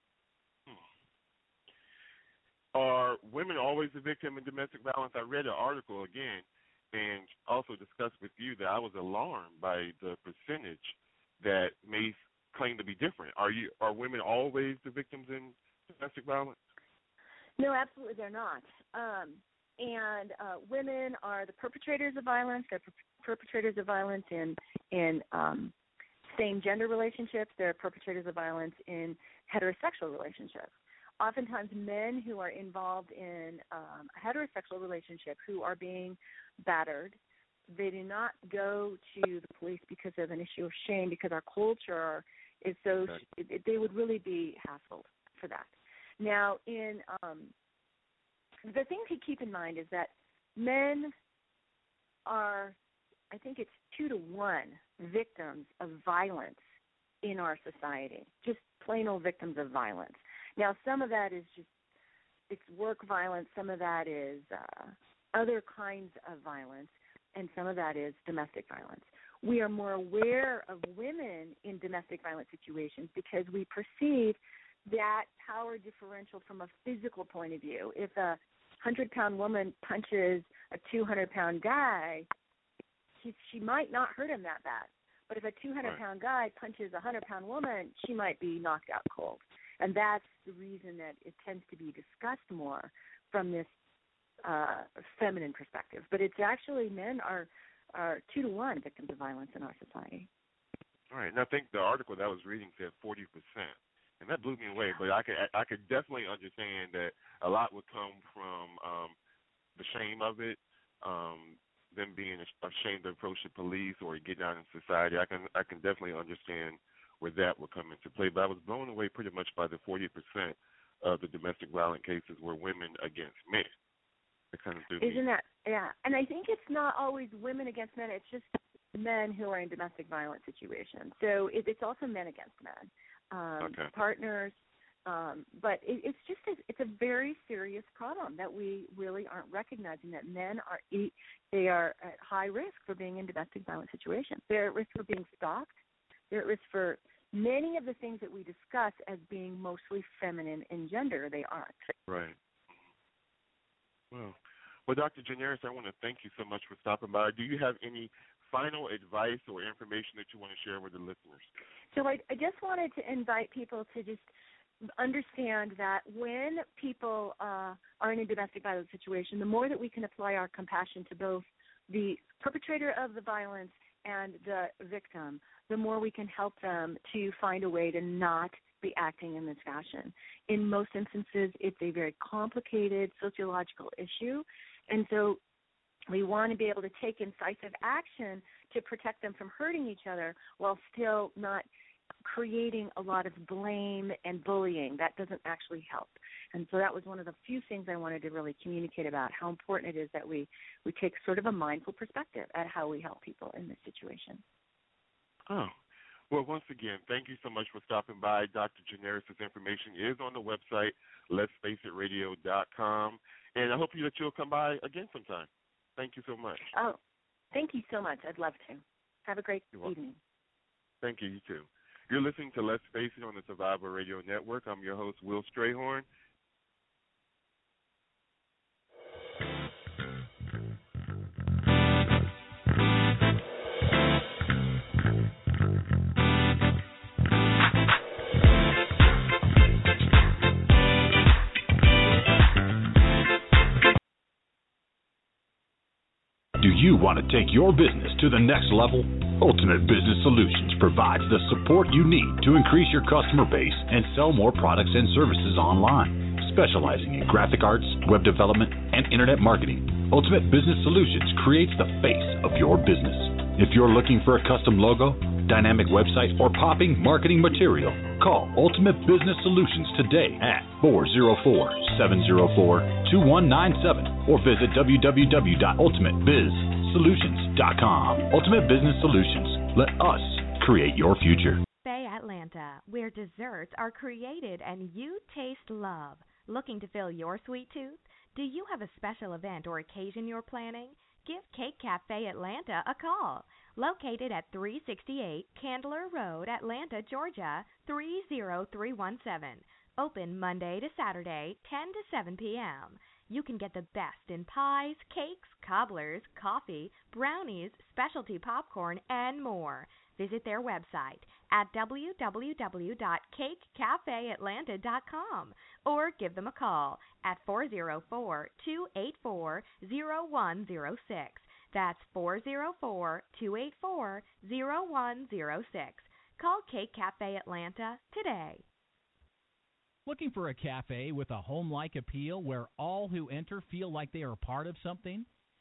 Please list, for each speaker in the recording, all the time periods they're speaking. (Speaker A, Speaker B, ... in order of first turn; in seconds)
Speaker A: 2.7-16.6, 42.9-43.2, 101.1-109.1, 109.8-123.7, 124.5-125.2, 133.6-133.9, 152.1-152.3, 154.1-161.5, 205.5-205.7, 206.3-216.6, 221.0-226.1
Speaker B: 17.6-25.7, 26.3-37.2, 37.7-47.5, 48.7-51.1, 52.3-52.8, 53.3-56.6, 57.2-61.7, 62.5-82.3, 83.2-93.7, 94.4-100.3, 125.0-145.7, 146.3-151.7, 161.9-164.3, 165.0-185.4, 186.1-191.7, 192.2-204.4, 216.7-217.0, 217.5-220.2
Speaker C: 246.6-281.6
Speaker D: 281.8-328.6
Speaker E: 330.1-335.2